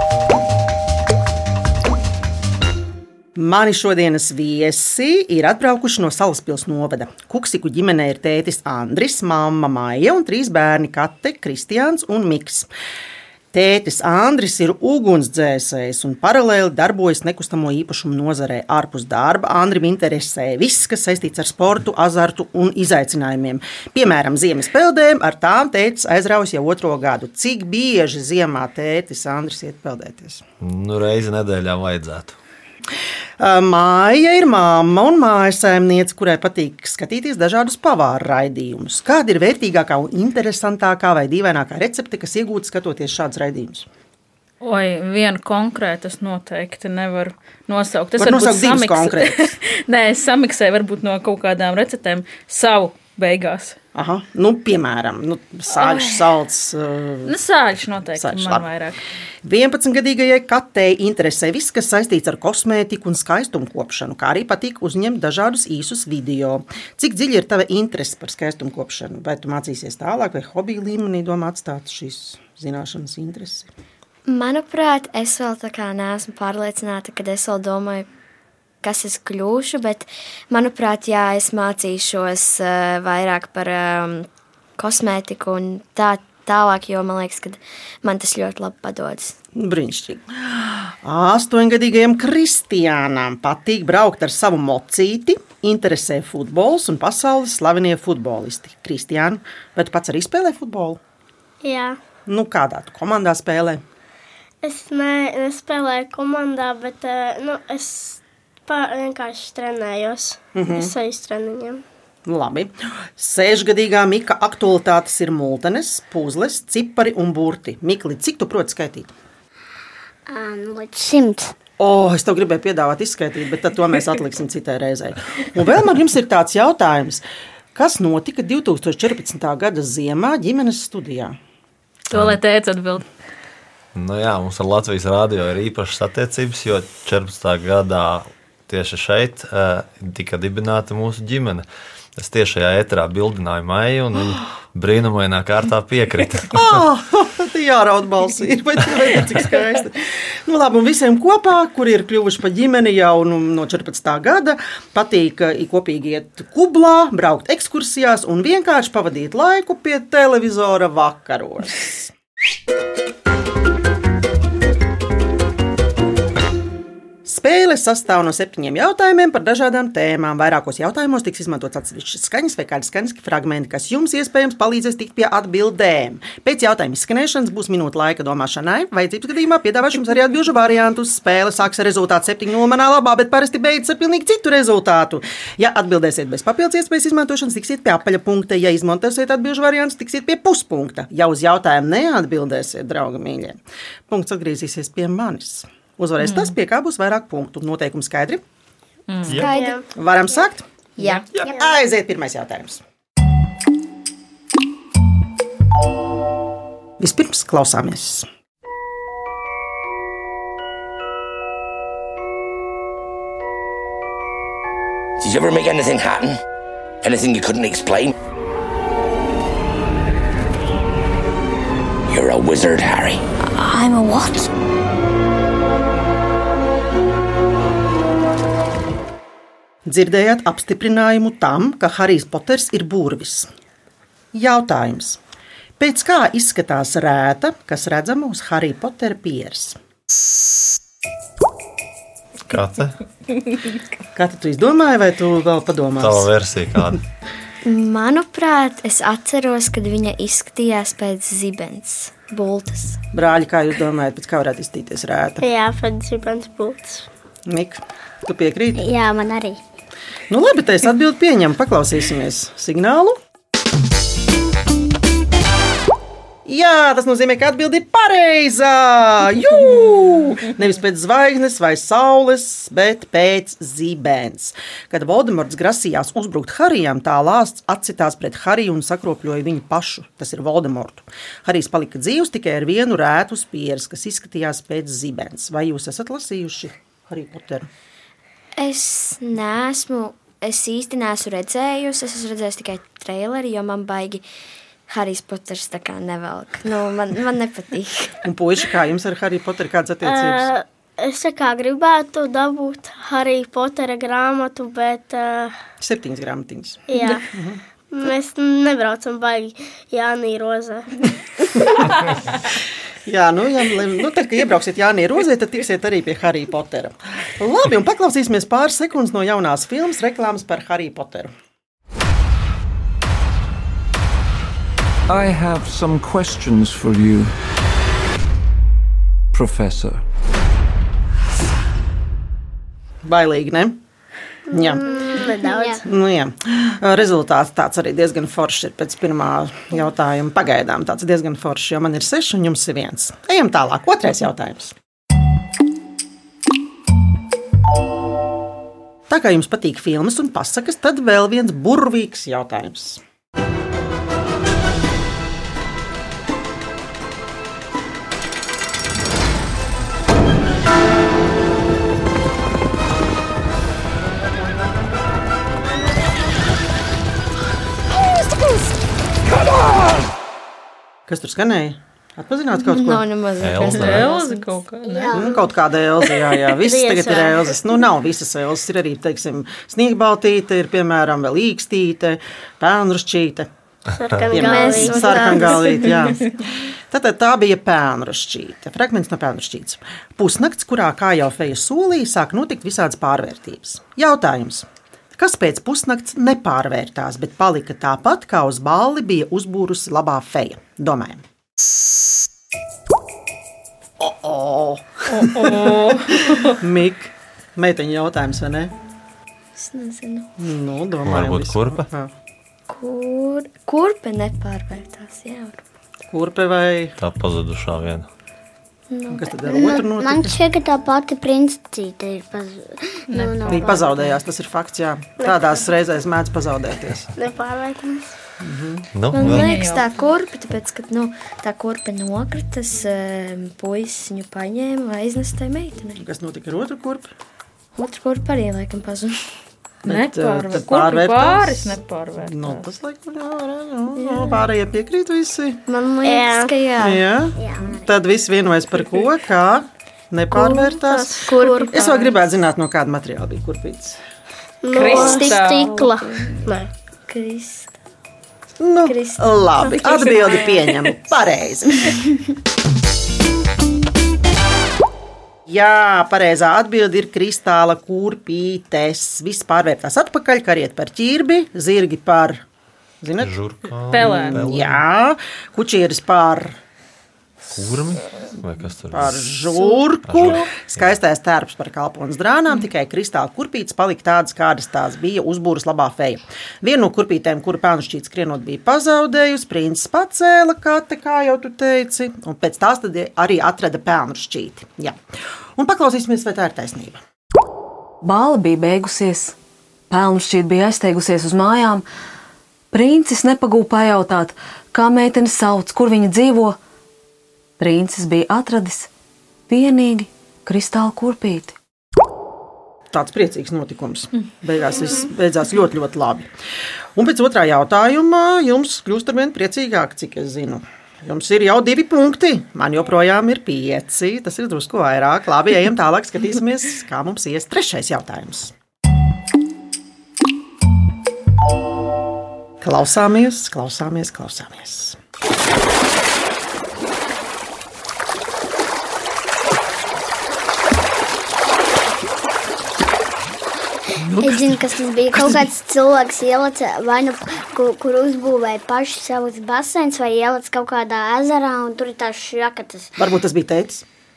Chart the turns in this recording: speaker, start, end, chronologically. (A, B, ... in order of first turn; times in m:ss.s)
0:03.4-0:12.7 A
0:13.5-0:30.4 A
0:30.6-0:32.4 B
0:33.4-0:43.9 A
0:44.6-0:53.8 C
0:48.2-0:49.5 A
0:54.0-0:57.4 A
0:55.7-0:56.2 C
0:57.2-0:59.0 C
0:58.1-0:58.7 A
0:59.4-1:13.7 A
1:14.3-1:18.1 D
1:18.8-1:24.3 D
1:24.8-1:29.4 D
1:29.5-1:41.0 A
1:41.6-1:42.0 E
1:42.3-1:43.8 A
1:44.6-1:51.8 E
1:50.6-1:50.9 A
1:52.2-1:59.2 A
2:00.3-2:01.6 F
2:01.8-2:07.2 A
2:07.7-2:11.4 A
2:12.1-2:13.1 C
2:12.1-2:12.4 B
2:13.9-2:26.8 B
2:26.5-2:42.1 A
2:47.2-3:18.4 A
3:16.2-3:16.5 C
3:19.1-3:19.5 C
3:19.2-3:19.6 B
3:19.4-3:19.8 D
3:19.4-3:19.8 E
3:19.9-3:22.8 A
3:21.4-3:21.7 F
3:27.0-3:28.2 A
3:35.2-3:36.4 G
3:37.0-3:38.1 G
3:42.1-3:43.2 G
3:43.5-3:44.5 H
3:49.8-3:53.5 A
3:54.3-3:55.2 A
3:55.8-3:59.8 A
4:02.5-4:03.0 B
4:04.2-4:06.3 A
4:06.0-4:07.0 B
4:07.6-4:13.0 D
4:13.1-4:15.4 A
4:15.4-4:17.1 E
4:17.5-4:18.9 A
4:18.8-4:19.6 F
4:20.3-4:23.2 A
4:26.4-4:47.7 A
4:48.6-4:54.2 D
4:54.9-4:58.2 D
4:58.2-5:00.5 A
5:00.0-5:05.6 E
5:05.8-5:07.6 A
5:06.9-5:07.3 E
5:07.9-5:11.8 E
5:13.1-5:21.3 A
5:25.1-5:27.3 I
5:29.4-5:30.0 I
5:33.0-5:33.8 A
5:34.5-5:34.9 A
5:34.5-5:35.8 E
5:34.8-5:35.8 F
5:35.8-5:44.8 A
5:49.1-5:53.0 A
6:11.1-6:13.0 A
6:12.5-6:14.6 D
6:13.4-6:14.1 B
6:13.6-6:15.3 C
6:14.9-6:15.5 F
6:15.1-6:23.5 A
6:16.5-6:17.6 E
6:24.0-6:25.6 E
6:24.3-6:41.2 A
6:24.3-6:26.0 D
6:44.0-6:48.7 A
6:45.1-6:46.6 C
6:49.6-6:50.3 D
6:50.4-6:52.1 A
6:51.0-6:51.9 B
6:52.7-6:55.6 D
6:56.1-6:56.9 A
6:57.0-6:58.1 B
6:58.9-6:59.6 D
6:59.1-7:00.4 A
6:59.4-7:04.0 F
7:03.1-7:04.2 C
7:03.5-7:07.0 A
7:05.2-7:05.7 E
7:07.2-7:08.1 E
7:08.4-7:08.9 A
7:08.9-7:09.6 B
7:09.1-7:16.0 D
7:09.2-7:09.8 C
7:16.0-7:17.1 A
7:17.8-7:19.3 D
7:19.8-7:25.6 A
7:19.8-7:22.8 C
7:24.0-7:24.4 D
7:25.7-7:27.1 D
7:26.0-7:26.6 E
7:26.8-7:34.0 A
7:27.4-7:27.9 F
7:30.3-7:31.8 D
7:30.8-7:31.9 E
7:34.6-7:36.7 E
7:34.7-7:35.9 C
7:34.8-7:36.5 D
7:37.1-7:37.7 D
7:38.6-7:42.1 A
7:38.8-7:39.3 D
7:39.6-7:40.6 E
7:45.5-7:52.4 A
7:53.0-7:53.4 A
7:53.2-7:54.8 B
7:53.9-7:54.4 C
7:53.9-7:56.6 A
7:57.5-7:59.4 B
7:58.9-8:15.0 A
8:00.0-8:00.9 B
8:15.6-8:17.0 A
8:18.0-8:19.3 H
8:19.9-8:21.8 H
8:22.7-8:26.6 H
8:27.6-8:28.9 H
8:29.5-8:31.6 H
8:32.9-8:36.3 A
8:37.0-8:48.5 A
8:52.6-8:55.0 A
9:04.0-9:05.4 A
9:04.1-9:13.0 F
9:13.0-9:13.8 A